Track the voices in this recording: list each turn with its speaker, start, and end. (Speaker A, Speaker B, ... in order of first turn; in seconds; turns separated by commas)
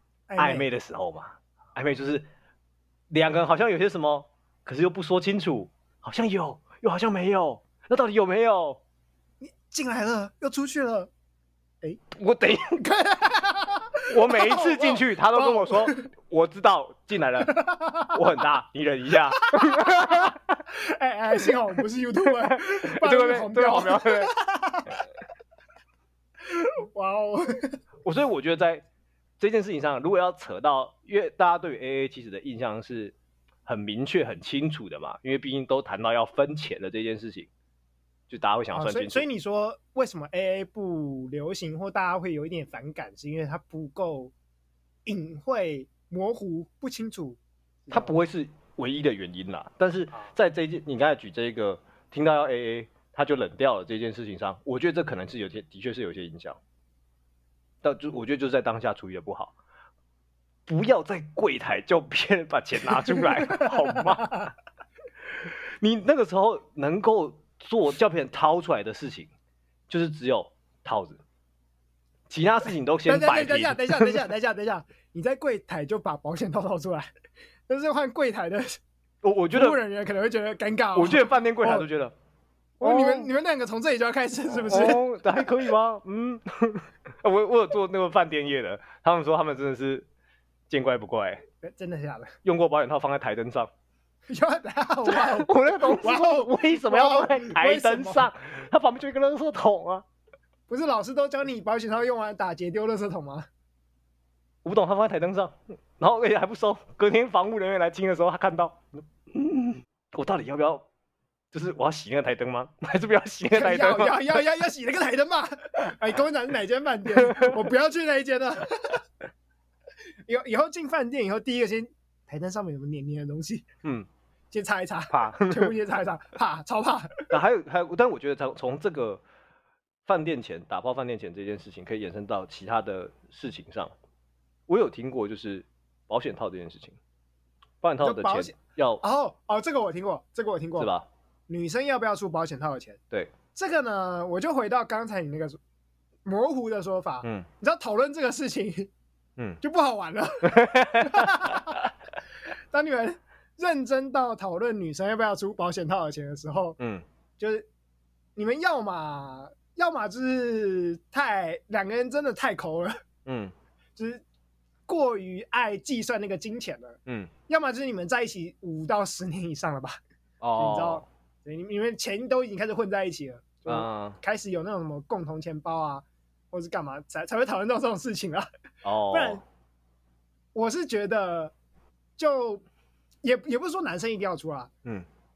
Speaker A: 0.3-0.7, Speaker B: 0.4-2.2, Speaker B: 3.1-8.8, Speaker A: 9.4-11.1, Speaker B: 12.1-12.8, Speaker A: 12.8-16.1, Speaker B: 14.1-20.6, Speaker A: 17.4-18.2, Speaker A: 19.4-25.0, Speaker B: 22.3-24.3, Speaker A: 26.4-27.8, Speaker B: 28.0-28.9, Speaker B: 29.4-33.1, Speaker B: 33.7-37.5, Speaker B: 38.3-39.2, Speaker A: 38.7-44.3, Speaker A: 45.1-48.1, Speaker B: 47.9-56.6, Speaker B: 57.8-59.5, Speaker B: 60.7-64.5, Speaker A: 63.1-64.5, Speaker B: 65.4-69.3, Speaker B: 69.9-71.2, Speaker B: 72.3-74.2, Speaker A: 73.1-77.1, Speaker A: 77.7-78.8, Speaker B: 79.2-79.8, Speaker A: 79.5-81.9, Speaker B: 81.0-82.1, Speaker A: 82.8-85.0, Speaker B: 82.8-83.3, Speaker B: 84.6-90.1, Speaker B: 90.7-91.4, Speaker A: 91.6-92.3, Speaker B: 92.4-93.7, Speaker A: 94.3-98.3, Speaker B: 95.0-100.0, Speaker A: 100.7-103.5, Speaker B: 104.6-110.9, Speaker B: 111.5-114.4, Speaker A: 113.5-119.0, Speaker A: 120.3-123.7, Speaker A: 124.5-127.3, Speaker B: 125.1-125.7, Speaker B: 127.3-129.2, Speaker B: 130.1-133.9, Speaker B: 134.7-137.0, Speaker B: 137.8-139.0, Speaker A: 138.0-140.9, Speaker B: 140.8-141.1, Speaker A: 141.5-143.0, Speaker A: 143.5-145.6, Speaker A: 146.2-148.9, Speaker A: 149.6-151.8, Speaker B: 150.4-151.8, Speaker A: 152.7-156.8, Speaker B: 156.8-157.1, Speaker A: 157.4-157.7, Speaker A: 158.4-163.0, Speaker B: 163.3-163.5, Speaker A: 164.0-164.2, Speaker A: 164.9-170.0, Speaker B: 167.1-167.3, Speaker B: 170.4-171.1, Speaker A: 170.6-178.5, Speaker B: 173.7-174.2, Speaker B: 178.8-179.4, Speaker A: 179.1-179.4, Speaker A: 180.6-181.5, Speaker A: 182.2-182.6, Speaker A: 183.2-184.7